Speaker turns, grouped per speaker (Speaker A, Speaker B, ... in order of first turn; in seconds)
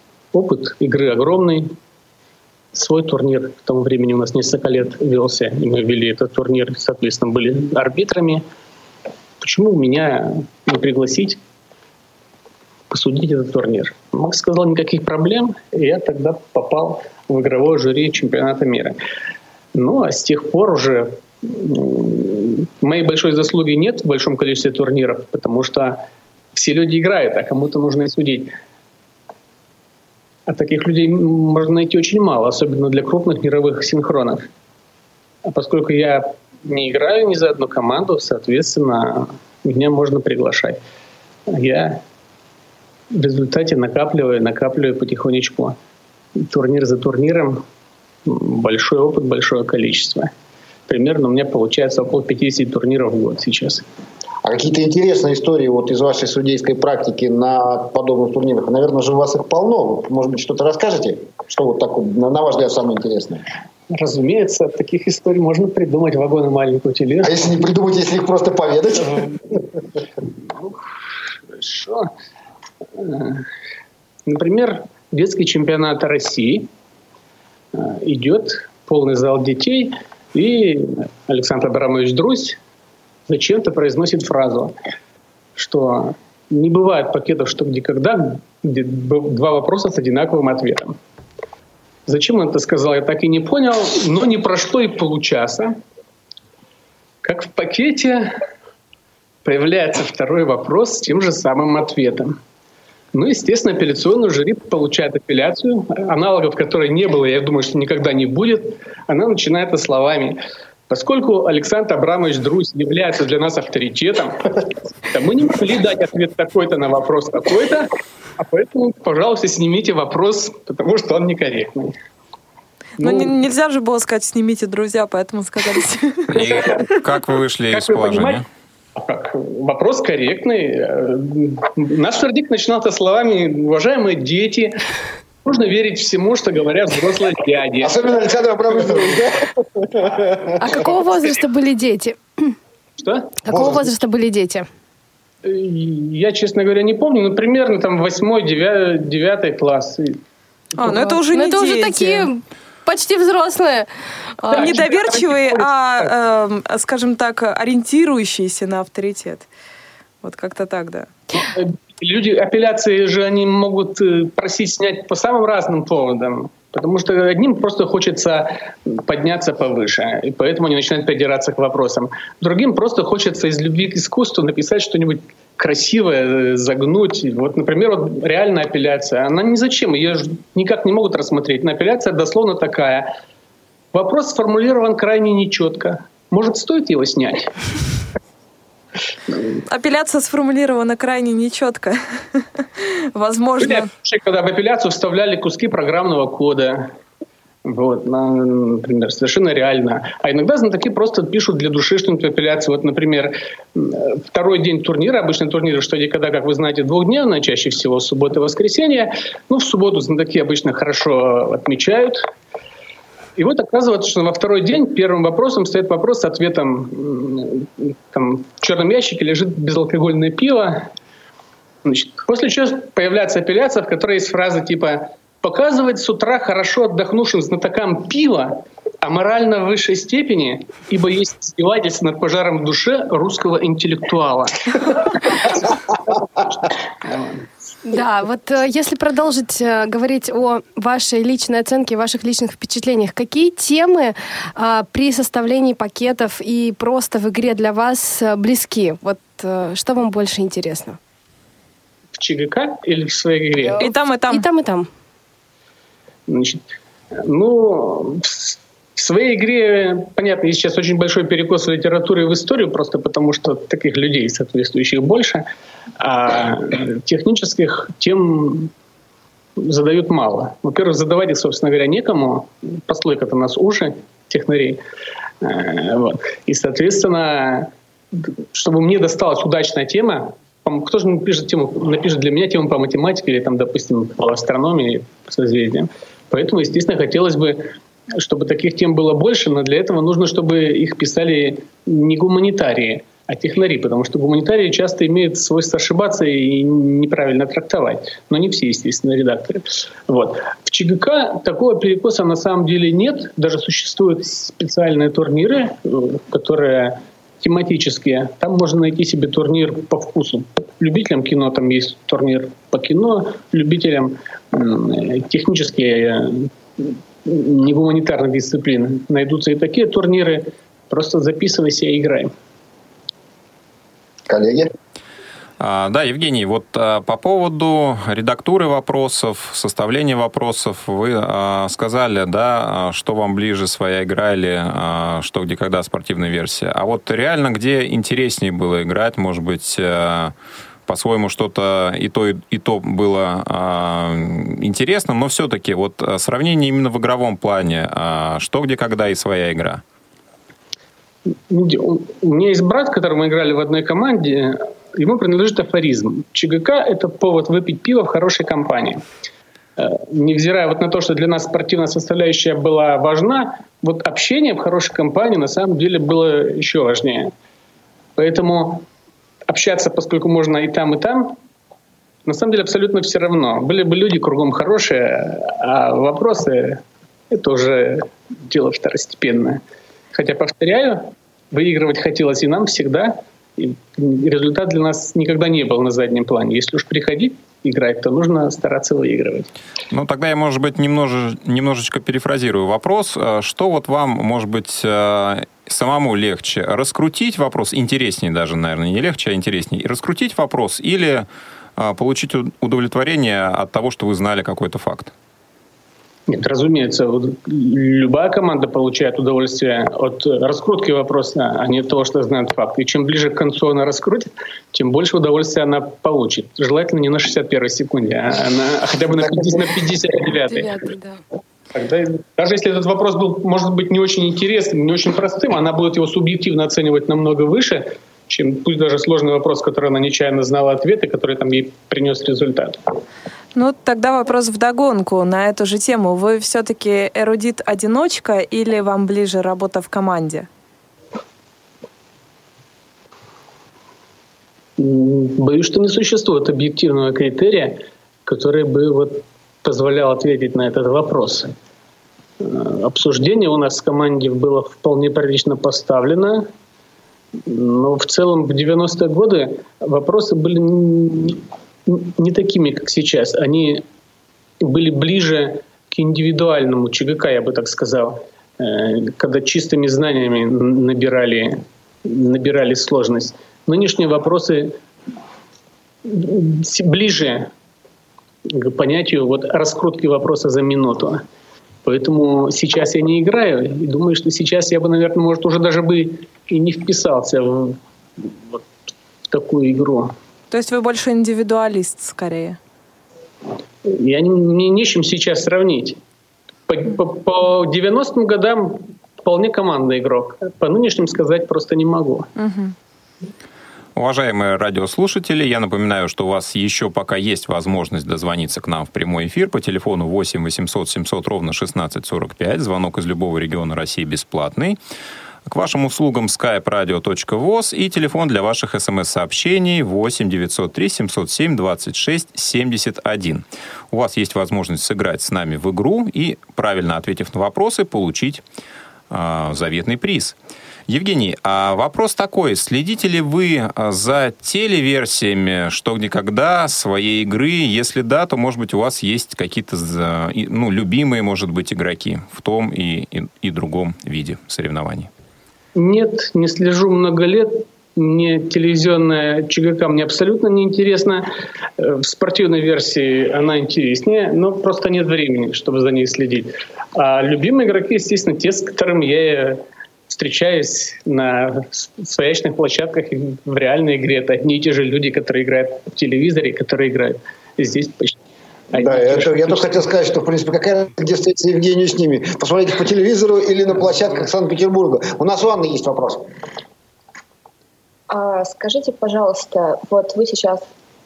Speaker A: 0.3-1.7, 2.7-8.4, 9.4-11.4, 12.9-19.0, 19.7-26.0, 26.6-28.5, 30.5-34.5, 35.5-40.8, 41.5-42.0, 43.1-45.8, 46.4-47.6, 48.3-50.3, 50.9-53.8, 63.9-67.4, 71.5-72.1, 73.0-73.5, 74.3-76.7, 77.7-82.6, 83.3-84.7, 85.6-91.0, 92.1-95.8, 97.2-98.3, 99.5-102.4, 103.1-110.4, 110.9-121.9, 123.0-123.3, 127.7-128.4, 129.0-134.8, 135.4-138.0, 138.9-139.2, 143.0-143.3, 145.4-150.2, 154.5-155.7, 161.3-183.1, 183.9-187.5, 193.6-196.9, 197.7-212.3, 213.4-220.9, 221.8-236.5, 237.0-237.4, 252.2-253.8, 256.3-265.4, 266.0-268.7, 269.6-274.8, 275.4-322.3, 351.5-359.0, 359.8-367.3, 368.2-368.9, 369.5-371.4, 372.3-379.6, 380.1-389.5, 406.3-420.8, 421.7-432.8, 444.8-451.5, 452.4-456.5, 457.4-463.8, 464.6-474.7, 476.1-477.5, 478.5-481.2, 481.9-488.6, 489.3-490.1, 493.9-496.0, 496.7-502.3, 545.8-551.3, 551.8-568.2, 568.7-569.9
Speaker B: 54.4-63.5, 67.2-69.3, 137.8-140.8, 143.5-143.9, 324.3-324.7, 568.7-576.3
Speaker C: 123.0-126.7, 150.8-152.3, 154.5-159.5, 160.2-161.1, 189.7-193.9, 253.8-254.5, 433.6-440.5, 490.5-492.6, 502.4-502.8
Speaker D: 126.3-128.5, 325.6-340.3, 340.9-349.8, 389.9-405.1, 504.0-514.8, 515.5-528.4, 529.1-530.4, 530.9-545.1
Speaker E: 140.6-142.5, 143.4-144.7, 150.8-153.9, 154.4-154.9, 237.8-251.0, 253.7-254.9, 420.5-421.2
Speaker F: 578.1-580.6